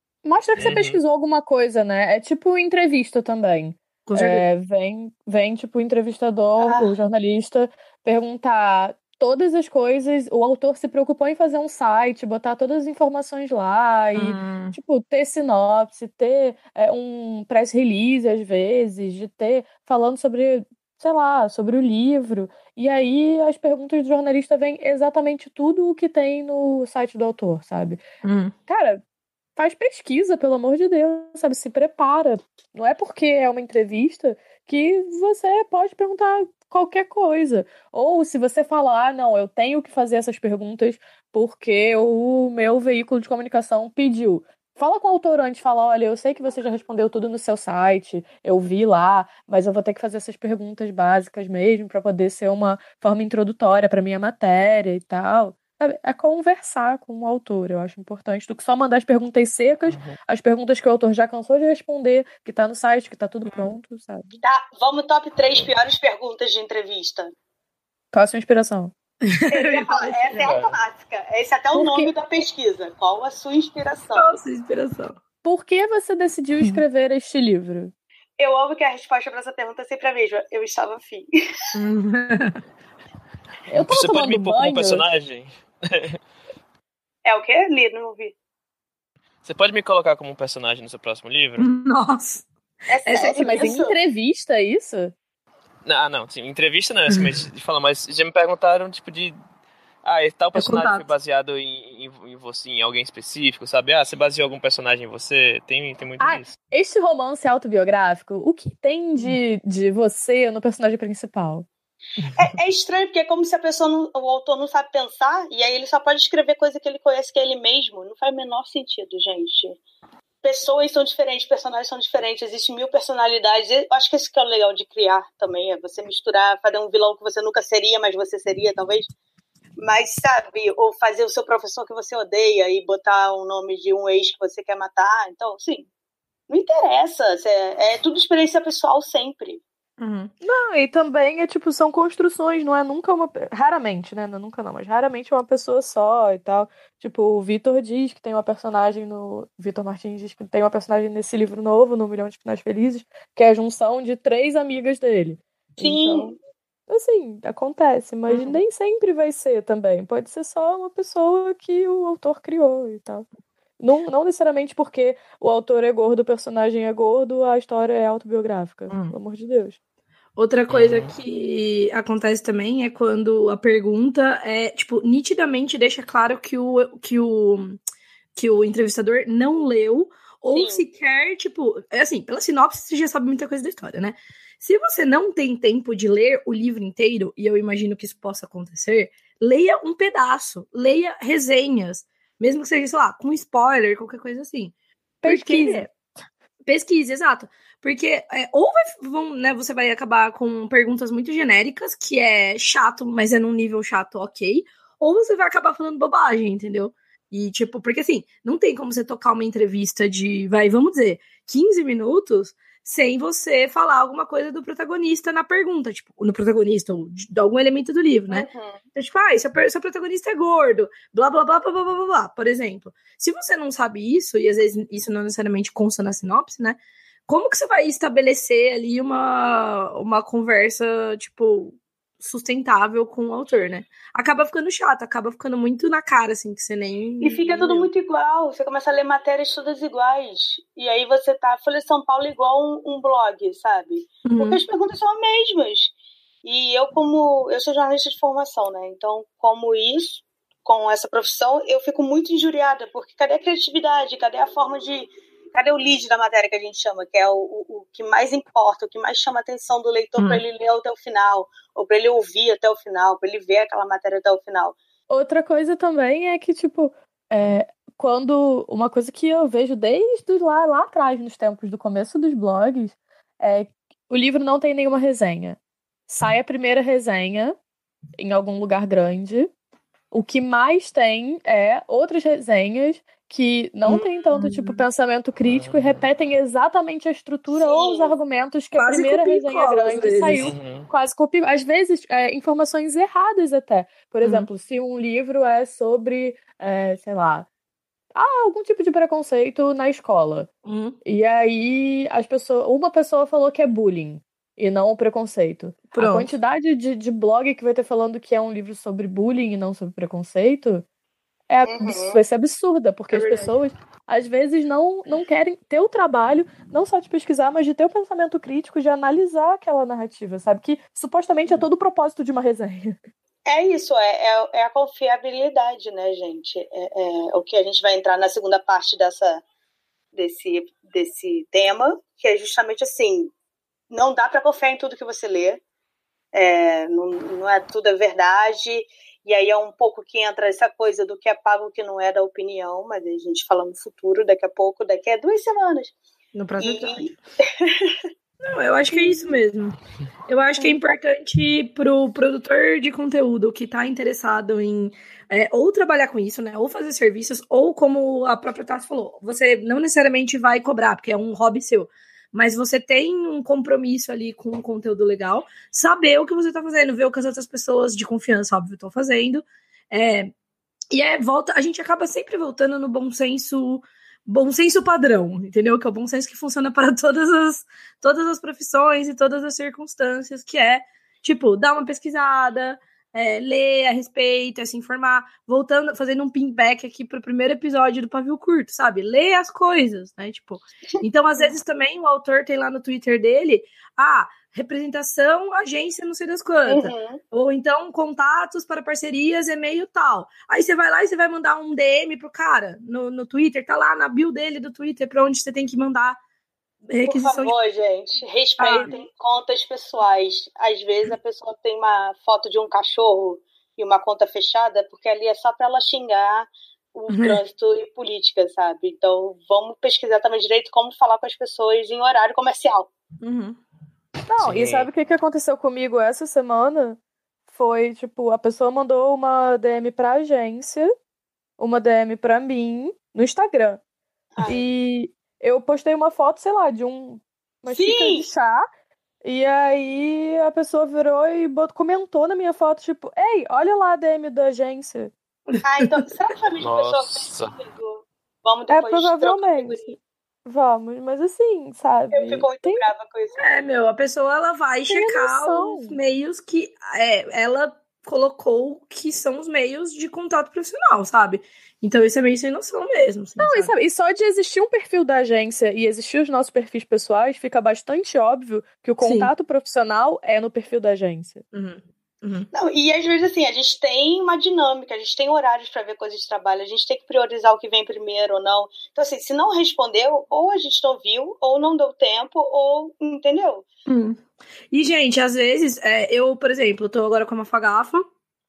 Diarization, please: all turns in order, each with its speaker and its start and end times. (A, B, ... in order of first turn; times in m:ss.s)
0:00.2-0:28.0 A
0:00.6-0:01.0 B
0:04.0-0:04.4 C
0:14.2-0:14.8 C
0:28.2-0:28.5 C
0:28.7-0:29.0 A
0:29.6-1:04.4 A
0:59.9-1:00.2 B
1:03.4-1:03.7 C
1:04.4-1:07.3 D
1:08.1-1:08.9 A
1:09.3-1:10.5 C
1:09.5-1:14.3 D
1:10.4-1:10.8 B
1:11.7-1:12.1 A
1:14.1-1:15.2 C
1:15.4-1:17.9 A
1:18.4-1:21.3 D
1:21.7-1:22.6 C
1:23.7-1:25.0 A
1:23.8-1:26.2 B
1:27.2-1:28.3 D
1:29.4-1:31.7 B
1:31.6-1:32.5 C
1:32.9-1:34.0 D
1:33.0-1:33.7 C
1:33.2-1:35.1 A
1:35.8-1:39.4 B
1:40.0-1:46.5 B
1:40.5-1:41.1 C
1:46.2-1:51.7 A
1:52.4-1:59.8 D
2:00.4-2:09.1 D
2:09.8-2:15.9 D
2:16.5-2:19.6 D
2:20.0-2:20.3 C
2:20.4-2:36.4 A
2:35.8-2:36.4 D
2:36.9-2:43.2 A
2:38.3-2:38.6 C
2:43.8-2:49.8 A
2:48.9-2:49.1 C
2:50.4-2:57.8 C
2:50.7-2:51.1 B
2:58.3-3:15.9 C
3:00.5-3:00.8 D
3:15.2-3:15.9 A
3:16.6-3:57.9 C
3:38.3-3:38.8 D
3:57.2-4:24.8 D
4:04.2-4:04.6 C
4:20.2-4:20.4 C
4:25.1-4:37.6 A
4:38.2-4:39.5 A
4:40.1-4:57.5 A
4:43.8-4:44.8 C
4:45.4-4:46.0 B
4:47.5-4:48.2 D
4:48.8-4:50.5 C
4:50.4-4:50.9 B
4:54.2-4:54.5 C
4:58.1-5:00.5 A
5:00.6-5:01.0 C
5:01.0-5:10.8 A
5:05.9-5:06.3 C
5:11.5-5:23.0 A
5:11.6-5:12.2 D
5:13.1-5:13.5 C
5:23.4-5:29.4 D
5:30.1-5:33.3 D
5:33.9-5:35.6 D
5:36.3-5:45.9 D
5:46.3-5:47.2 C
5:46.6-5:48.0 D
5:48.4-5:49.8 C
5:50.3-6:10.3 C
6:10.9-6:46.2 C
6:36.7-6:37.2 D
6:46.9-6:47.5 C
6:47.0-7:02.9 D
6:48.6-6:48.9 C
6:57.1-6:57.4 C
7:03.2-7:03.6 C
7:04.3-7:10.9 A
7:04.4-7:04.9 B
7:11.6-7:13.8 A
7:14.3-7:14.6 D
7:14.4-7:18.6 A
7:17.6-7:18.3 D
7:19.2-7:25.1 A
7:25.5-7:25.9 C
7:25.6-7:30.0 D
7:26.6-7:27.5 B
7:28.7-7:32.8 A
7:32.1-7:33.5 D
7:33.4-7:43.7 C
7:34.9-7:36.0 A
7:43.4-7:51.4 A
7:49.0-7:49.3 C
7:51.5-7:52.5 C
7:52.5-8:03.6 D
8:03.9-8:08.1 C